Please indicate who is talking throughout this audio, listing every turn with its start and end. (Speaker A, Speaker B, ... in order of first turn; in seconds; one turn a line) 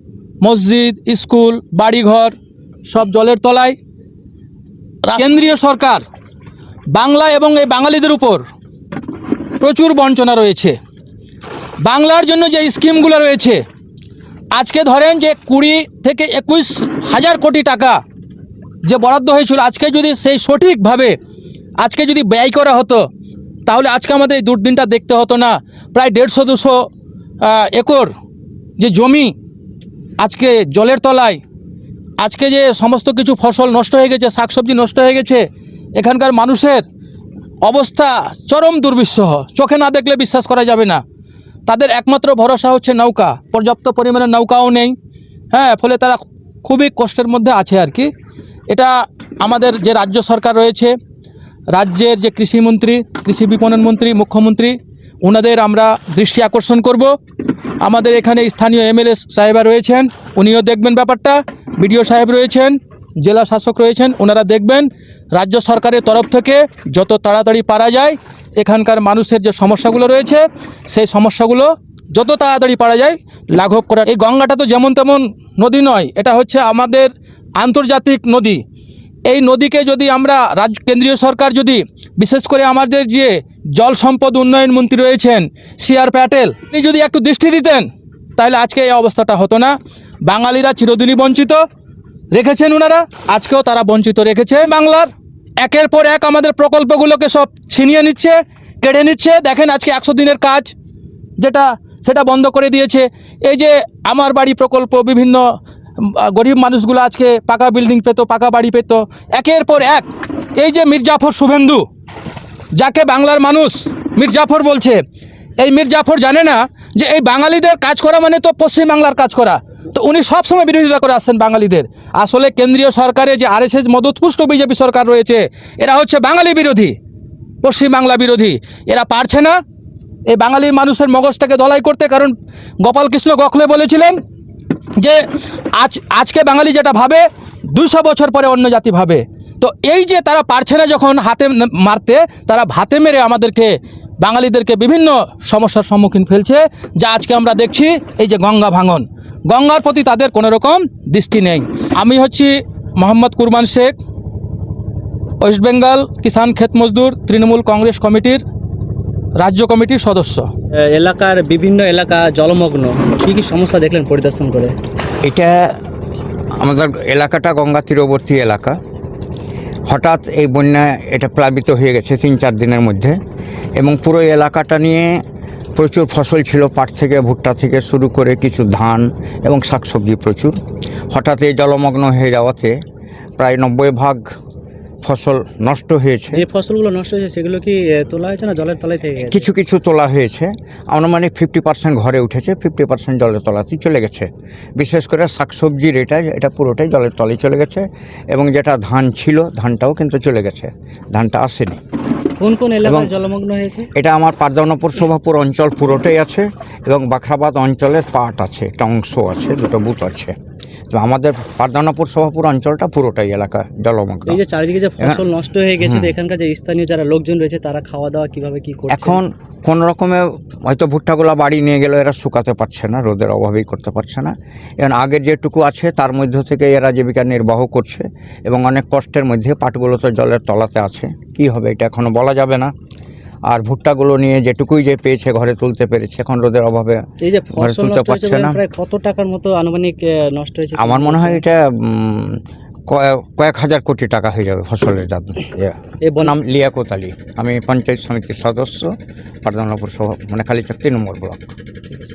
Speaker A: 0.4-2.3
Speaker A: 2.9-3.8
Speaker A: 5.0-6.0
Speaker A: 6.9-8.4
Speaker A: 9.6-10.8
Speaker A: 11.8-13.6
Speaker A: 14.5-18.0
Speaker A: 18.8-21.2
Speaker A: 21.8-23.0
Speaker A: 23.6-26.9
Speaker A: 27.4-28.1
Speaker A: 28.8-29.3
Speaker A: 30.2-31.4
Speaker A: 32.2-36.8
Speaker A: 37.6-41.0
Speaker A: 41.7-44.9
Speaker A: 45.5-48.1
Speaker A: 48.7-50.9
Speaker A: 51.7-57.1
Speaker A: 57.8-78.6
Speaker A: 79.2-91.6
Speaker A: 92.3-100.7
Speaker A: 101.4-105.4
Speaker A: 106.0-111.8
Speaker A: 112.7-115.0
Speaker A: 115.6-127.0
Speaker A: 127.6-129.6
Speaker A: 130.3-134.2
Speaker A: 135.7-154.0
Speaker A: 155.4-158.4
Speaker A: 159.3-160.5
Speaker B: 160.9-164.7
Speaker C: 165.2-165.8
Speaker C: 166.6-168.8
Speaker C: 169.9-173.2
Speaker C: 173.8-175.2
Speaker C: 175.8-180.6
Speaker C: 181.1-182.8
Speaker C: 183.4-184.2
Speaker C: 185.0-186.4
Speaker B: 186.3-189.5
Speaker C: 189.2-201.8
Speaker B: 202.4-203.9
Speaker C: 202.8-203.1
Speaker C: 203.9-210.3
Speaker C: 210.9-214.4
Speaker B: 214.3-219.2
Speaker C: 215.8-216.1
Speaker C: 218.9-232.7
Speaker C: 233.5-237.0
Speaker B: 237.2-241.4
Speaker C: 237.6-238.6
Speaker C: 240.8-248.9
Speaker B: 246.1-246.3
Speaker C: 249.4-251.4